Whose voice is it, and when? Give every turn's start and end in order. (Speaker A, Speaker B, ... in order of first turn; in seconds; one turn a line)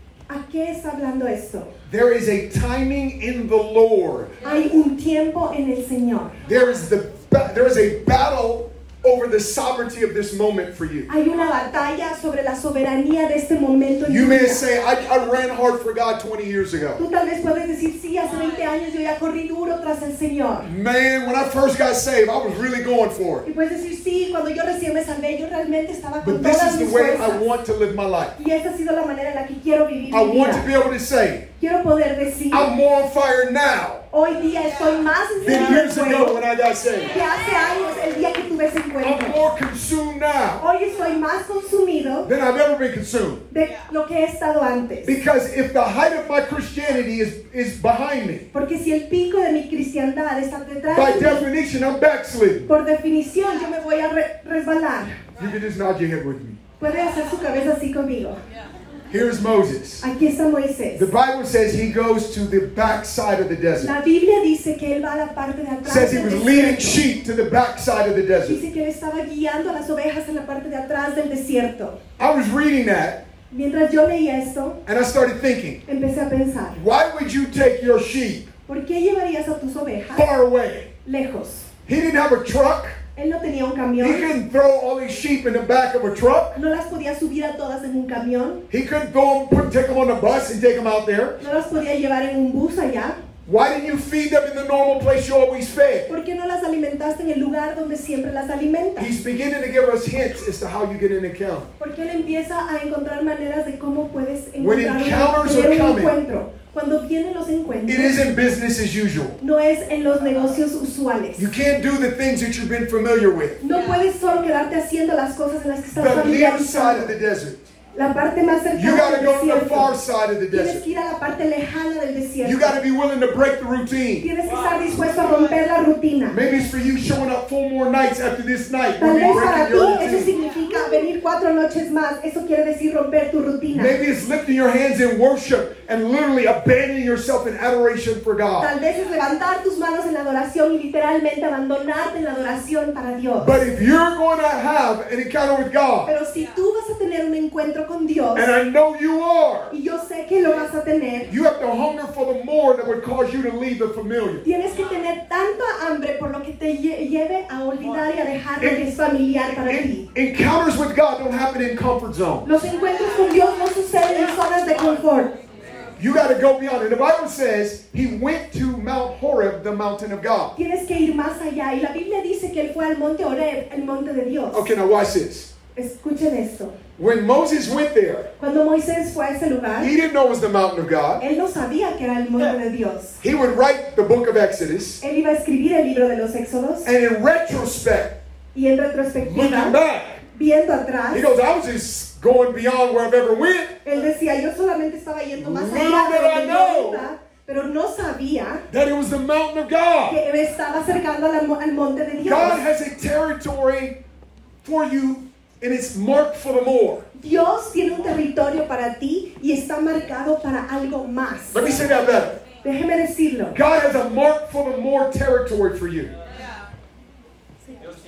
Speaker A: 0.3-1.7
Speaker B: 1.9-4.3
Speaker A: 4.4-6.4
Speaker B: 6.4-11.1
Speaker A: 11.1-14.6
Speaker B: 14.0-17.0
Speaker A: 17.0-20.7
Speaker B: 20.6-23.4
Speaker A: 23.4-27.5
Speaker B: 26.2-28.3
Speaker A: 28.4-30.7
Speaker B: 30.1-31.5
Speaker A: 31.6-32.7
Speaker B: 32.5-34.0
Speaker A: 34.1-36.4
Speaker B: 35.4-37.1
Speaker A: 37.1-39.4
Speaker B: 39.0-40.6
Speaker A: 40.6-42.3
Speaker B: 42.2-43.4
Speaker A: 43.5-45.1
Speaker B: 45.0-48.5
Speaker A: 48.5-51.4
Speaker B: 50.9-52.7
Speaker A: 52.7-55.2
Speaker B: 55.4-56.6
Speaker A: 56.8-58.4
Speaker B: 59.1-60.1
Speaker A: 60.0-61.1
Speaker B: 61.0-63.9
Speaker A: 63.8-67.0
Speaker B: 65.8-68.6
Speaker A: 68.5-72.0
Speaker B: 72.2-73.2
Speaker A: 73.5-74.8
Speaker B: 74.8-75.8
Speaker A: 75.9-76.8
Speaker B: 76.7-78.5
Speaker A: 78.7-80.3
Speaker B: 80.1-80.9
Speaker A: 81.0-81.7
Speaker B: 81.8-83.0
Speaker A: 83.2-84.3
Speaker B: 84.0-86.5
Speaker A: 86.5-88.6
Speaker B: 88.7-91.4
Speaker A: 91.4-93.2
Speaker B: 93.5-96.1
Speaker A: 96.1-99.1
Speaker B: 99.0-101.7
Speaker A: 101.8-108.2
Speaker B: 104.6-106.2
Speaker B: 107.8-109.4
Speaker A: 109.4-111.5
Speaker B: 111.4-113.6
Speaker A: 113.6-117.1
Speaker B: 115.9-117.7
Speaker A: 117.9-119.9
Speaker B: 118.7-120.8
Speaker A: 120.5-122.8
Speaker B: 122.4-124.3
Speaker A: 124.2-126.4
Speaker B: 126.3-130.3
Speaker A: 129.0-134.0
Speaker B: 133.7-138.7
Speaker A: 138.6-143.6
Speaker B: 143.4-146.1
Speaker A: 146.1-148.5
Speaker B: 148.3-149.7
Speaker A: 149.7-151.3
Speaker B: 151.3-154.4
Speaker A: 154.4-160.1
Speaker B: 158.6-158.9
Speaker B: 159.5-162.6
Speaker A: 162.4-165.3
Speaker B: 166.0-170.5
Speaker A: 170.6-174.7
Speaker B: 174.5-175.5
Speaker A: 175.7-176.8
Speaker B: 177.0-178.3
Speaker A: 178.4-179.9
Speaker B: 179.8-181.2
Speaker A: 181.2-183.2
Speaker B: 183.2-185.0
Speaker A: 185.0-186.9
Speaker B: 186.8-188.2
Speaker A: 188.5-189.8
Speaker B: 189.2-190.2
Speaker A: 190.3-191.2
Speaker B: 191.1-193.8
Speaker A: 193.8-198.6
Speaker B: 195.4-197.1
Speaker B: 198.7-200.2
Speaker A: 200.1-202.6
Speaker B: 202.2-203.9
Speaker B: 204.6-207.1
Speaker A: 207.2-211.7
Speaker B: 211.5-212.4
Speaker A: 212.6-213.6
Speaker B: 213.5-216.1